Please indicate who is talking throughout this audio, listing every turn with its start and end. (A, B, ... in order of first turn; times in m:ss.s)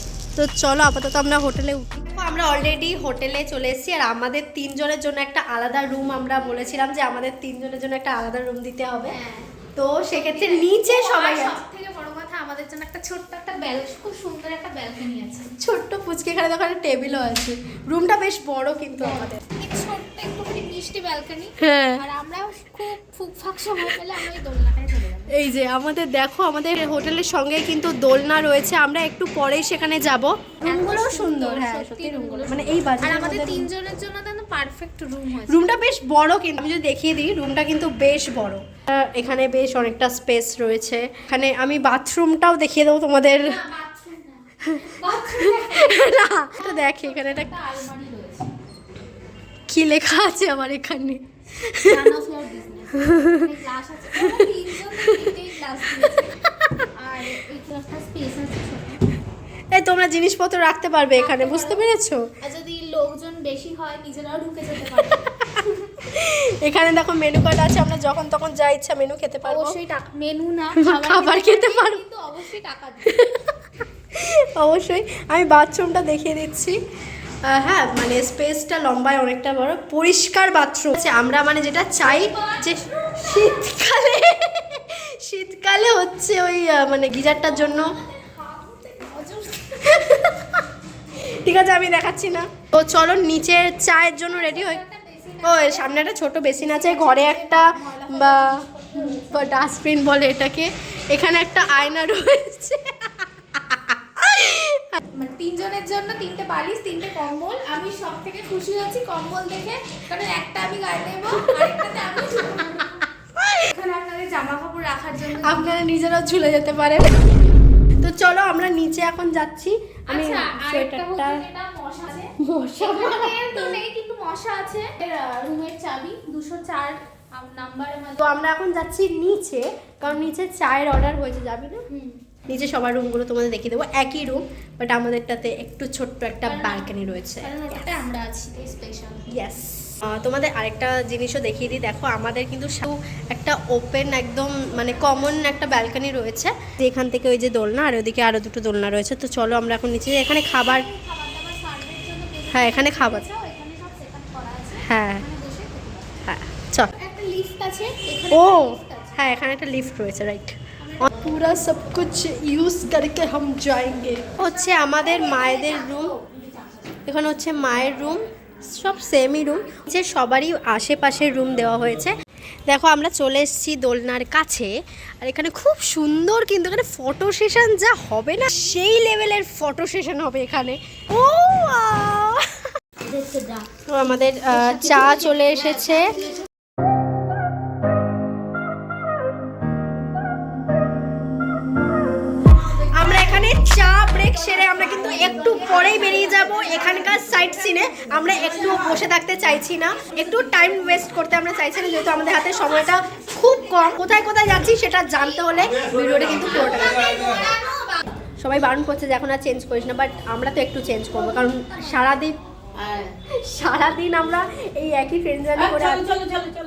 0:00.3-0:09.2 A
0:09.0-0:09.5 B
0:09.8-0:11.6 A
0:10.1-0:15.6 B
0:15.6-0:19.4 A
0:19.0-0:25.3 B
0:21.6-0:22.0 A
0:25.3-0:33.7 A
0:30.6-0:35.8 B
0:35.5-0:43.6 A
0:43.3-0:48.5 B
0:44.6-0:47.5 A
0:49.7-0:52.0 A
0:51.7-0:56.4 B
0:52.9-0:53.5 A
0:54.2-0:55.3 A
0:56.0-0:56.7 A
0:56.9-0:59.1 B
0:59.7-1:02.3 A
1:01.2-1:01.8 B
1:02.4-1:05.8 B
1:05.0-1:09.8 A
1:09.4-1:13.2 B
1:10.7-1:12.0 A
1:13.0-1:13.5 A
1:14.1-1:16.8 A
1:17.4-1:28.0 A
1:22.0-1:22.8 B
1:27.6-1:30.2 B
1:29.7-1:30.6 A
1:31.2-1:34.8 A
1:34.3-1:39.6 B
1:35.4-1:45.0 A
1:45.1-1:55.8 B
1:53.4-1:53.6 A
1:55.4-1:57.3 A
1:58.0-2:01.4 A
2:00.1-2:08.4 B
2:02.4-2:03.8 A
2:08.2-2:11.9 A
2:11.9-2:12.2 B
2:12.5-2:17.5 A
2:16.4-2:19.3 B
2:19.3-2:30.9 A
2:25.0-2:25.4 B
2:30.2-2:36.1 B
2:32.5-2:33.2 A
2:34.8-2:35.2 A
2:36.2-2:36.9 A
2:36.9-2:39.2 B
2:38.3-2:46.1 A
2:40.8-2:41.1 B
2:44.4-2:46.8 B
2:47.0-2:52.2 A
2:52.7-3:02.6 A
3:03.0-3:03.6 B
3:03.9-3:06.2 A
3:04.5-3:06.3 B
3:12.8-3:17.1 B
3:12.8-3:27.2 A
3:26.6-3:28.0 B
3:28.4-3:36.4 A
3:31.5-3:32.1 B